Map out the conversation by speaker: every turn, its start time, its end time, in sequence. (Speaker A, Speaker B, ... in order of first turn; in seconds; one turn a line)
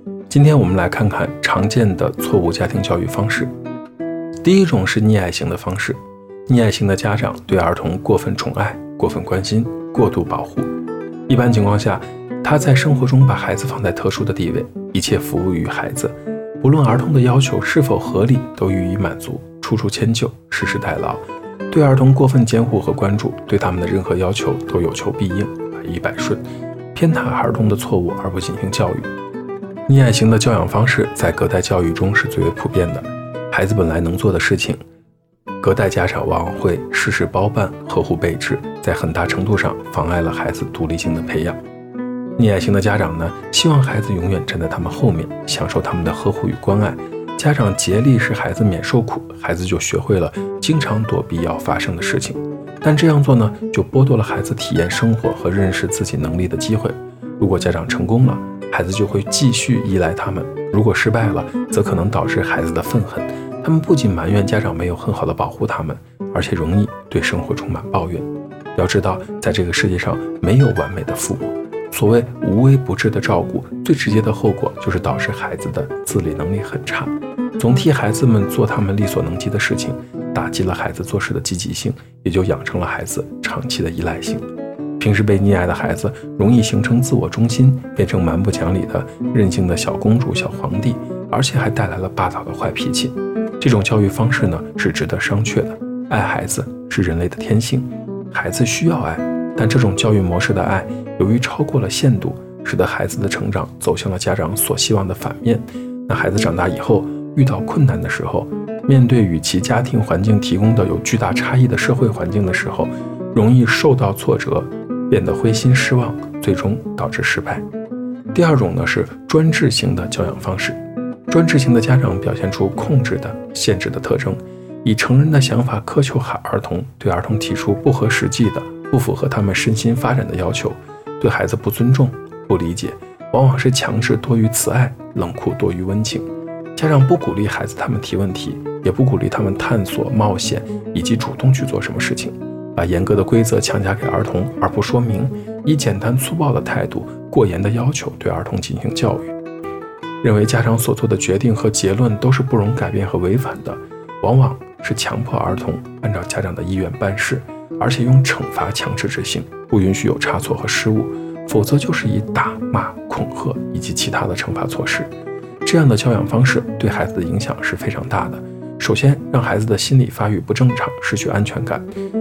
Speaker A: 0.3-3.5
Speaker A: 4.4-10.7
Speaker A: 11.3-26.4
Speaker A: 26.9-29.1
Speaker A: 29.9-34.8
Speaker A: 35.6-41.6
Speaker A: 42.4-84.5
Speaker A: 85.0-117.7
Speaker A: 118.3-149.3
Speaker A: 150.2-165.1
Speaker A: 165.6-171.9